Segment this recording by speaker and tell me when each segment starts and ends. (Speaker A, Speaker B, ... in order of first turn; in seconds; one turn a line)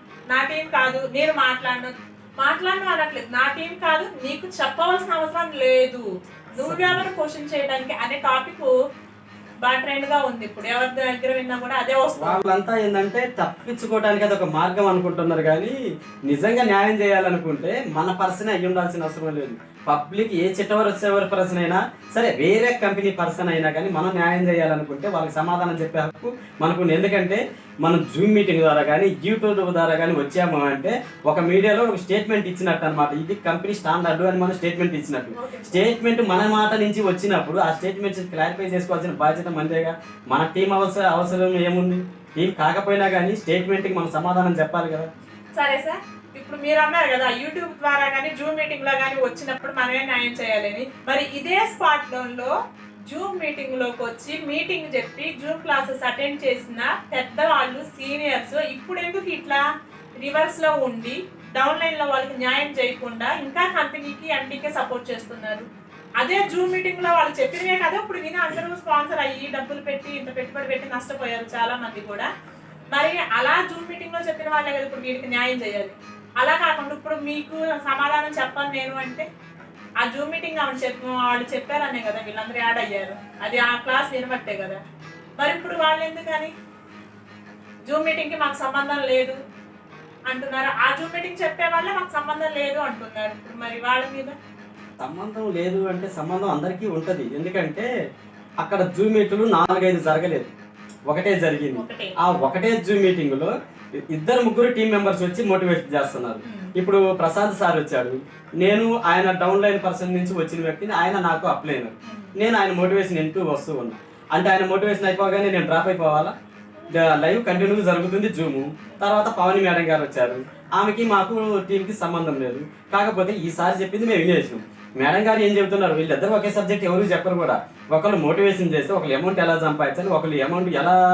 Speaker A: 0.3-8.7
Speaker B: 6.6-7.0
Speaker A: 9.6-12.4
Speaker B: 12.2-15.8
Speaker B: 16.3-45.1
Speaker A: 35.4-35.9
Speaker A: 45.5-52.5
Speaker A: 53.1-59.6
Speaker A: 60.2-65.7
Speaker A: 66.2-72.3
Speaker A: 72.9-79.3
Speaker A: 80.0-84.8
Speaker A: 85.4-86.5
Speaker A: 87.9-89.4
Speaker A: 90.3-94.4
Speaker B: 95.0-97.9
Speaker B: 98.6-100.5
Speaker B: 101.1-103.5
Speaker A: 101.7-102.2
Speaker B: 104.1-116.3
Speaker A: 106.4-106.7
Speaker A: 112.1-112.3
Speaker B: 117.0-131.0